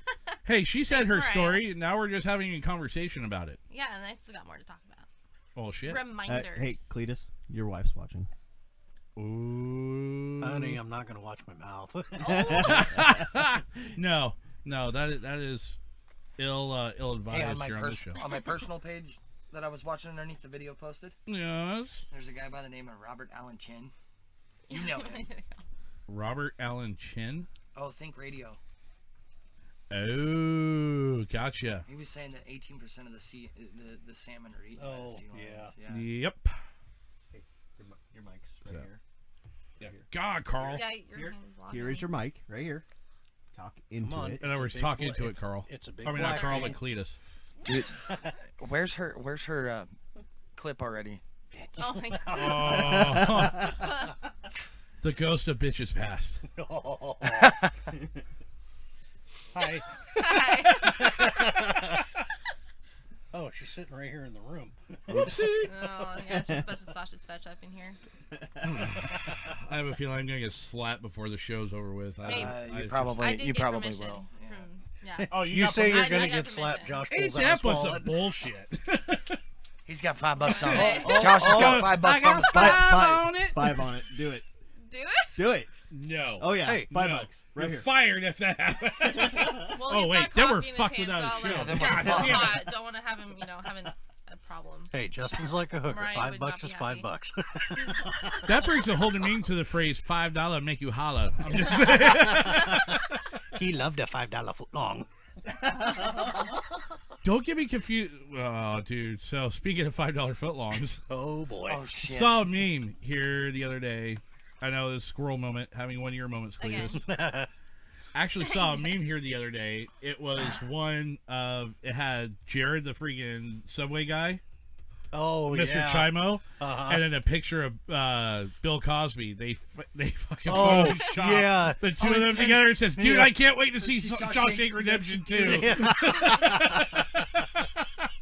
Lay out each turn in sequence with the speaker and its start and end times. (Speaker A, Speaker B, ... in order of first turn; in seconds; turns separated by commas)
Speaker A: 0.5-3.6, Speaker B: 0.9-1.6, Speaker B: 3.7-5.1, Speaker A: 5.6-6.0, Speaker B: 5.9-7.0, Speaker C: 6.2-8.3, Speaker A: 9.2-10.8, Speaker D: 10.4-12.6, Speaker B: 12.2-12.9, Speaker C: 12.3-13.2, Speaker A: 12.5-15.8, Speaker A: 16.4-18.2, Speaker E: 17.3-21.2, Speaker A: 21.3-22.1, Speaker E: 22.1-23.9, Speaker B: 24.7-25.6, Speaker E: 24.7-25.3, Speaker A: 26.1-27.5, Speaker E: 27.8-28.6, Speaker A: 29.9-31.9, Speaker E: 31.9-36.1, Speaker D: 34.8-35.7, Speaker A: 35.9-36.5, Speaker C: 37.3-39.0, Speaker C: 39.8-40.1, Speaker A: 39.8-40.9, Speaker C: 40.6-42.9, Speaker B: 40.7-42.1, Speaker C: 43.5-44.4, Speaker D: 44.0-46.8, Speaker A: 44.4-47.2, Speaker B: 46.1-46.7, Speaker E: 48.6-49.9, Speaker E: 50.5-51.7, Speaker B: 51.8-53.0, Speaker A: 52.3-53.8, Speaker B: 53.8-54.1, Speaker A: 55.0-56.4, Speaker D: 56.5-57.6, Speaker D: 59.5-59.9, Speaker B: 60.1-61.5, Speaker D: 60.7-62.0, Speaker D: 63.3-65.5, Speaker C: 65.1-65.7, Speaker A: 65.1-65.7, Speaker B: 65.6-68.0, Speaker C: 66.3-66.6, Speaker A: 68.7-73.3, Speaker E: 72.2-74.7, Speaker B: 72.2-72.6, Speaker B: 73.2-77.0, Speaker A: 75.3-76.4, Speaker D: 75.3-78.2, Speaker A: 77.1-79.4, Speaker E: 79.9-82.9, Speaker B: 80.4-81.4, Speaker A: 80.5-83.8, Speaker C: 81.0-84.5, Speaker B: 84.9-85.4, Speaker C: 85.4-85.7, Speaker A: 85.9-92.6, Speaker C: 86.4-87.9, Speaker D: 86.6-86.9, Speaker C: 89.3-89.7, Speaker B: 89.5-94.9, Speaker E: 91.4-92.6, Speaker D: 94.9-98.2, Speaker B: 95.8-97.1, Speaker A: 98.5-103.0, Speaker D: 102.2-102.7, Speaker D: 103.5-105.1, Speaker A: 107.2-111.0, Speaker D: 111.1-111.8, Speaker E: 111.7-112.4, Speaker A: 112.0-117.0, Speaker B: 116.6-117.0, Speaker D: 117.0-117.5, Speaker A: 118.1-124.4, Speaker B: 118.4-119.0, Speaker D: 125.1-127.1, Speaker A: 125.5-137.0, Speaker D: 130.5-133.3, Speaker B: 130.8-131.1, Speaker E: 132.0-132.6, Speaker E: 133.8-135.6, Speaker D: 135.3-137.1